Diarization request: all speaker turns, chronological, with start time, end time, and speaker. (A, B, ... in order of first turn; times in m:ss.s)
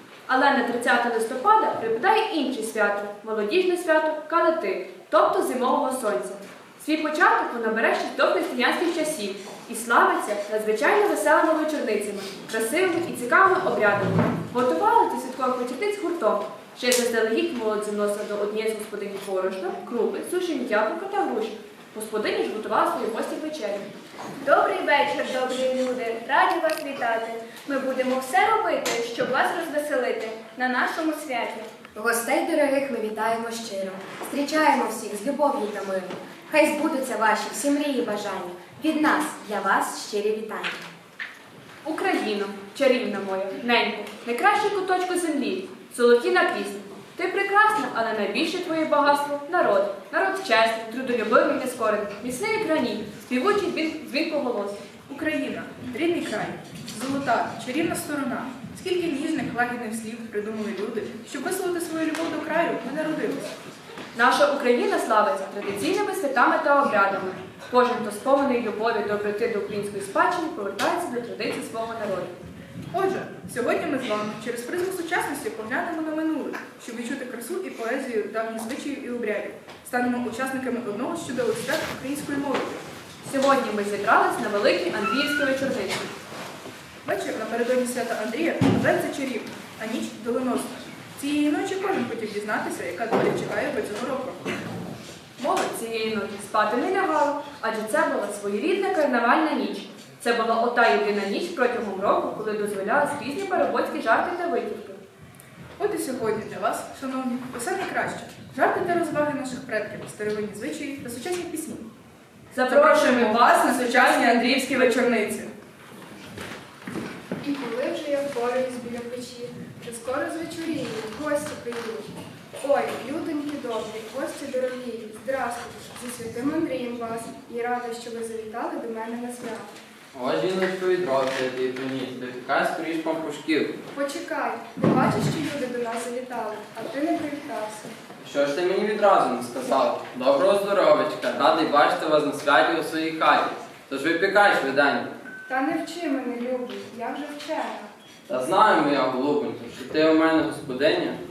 0:00.3-0:23.9 A
0:24.4-0:31.7 B
0:31.9-0:40.8 C
0:41.8-0:54.8 A
0:55.1-1:03.5 D
1:04.1-1:12.4 A
1:12.9-1:22.8 D
1:23.2-1:26.1 A
1:27.0-1:34.5 D
1:35.4-1:45.0 A
1:45.8-1:51.9 D
1:52.5-1:55.3 A
1:52.6-1:55.5 D
1:57.4-2:09.7 E
2:10.1-2:13.7 F
2:13.9-2:18.0 E
2:18.2-2:25.1 F
2:25.4-2:27.9 E
2:28.3-2:31.2 F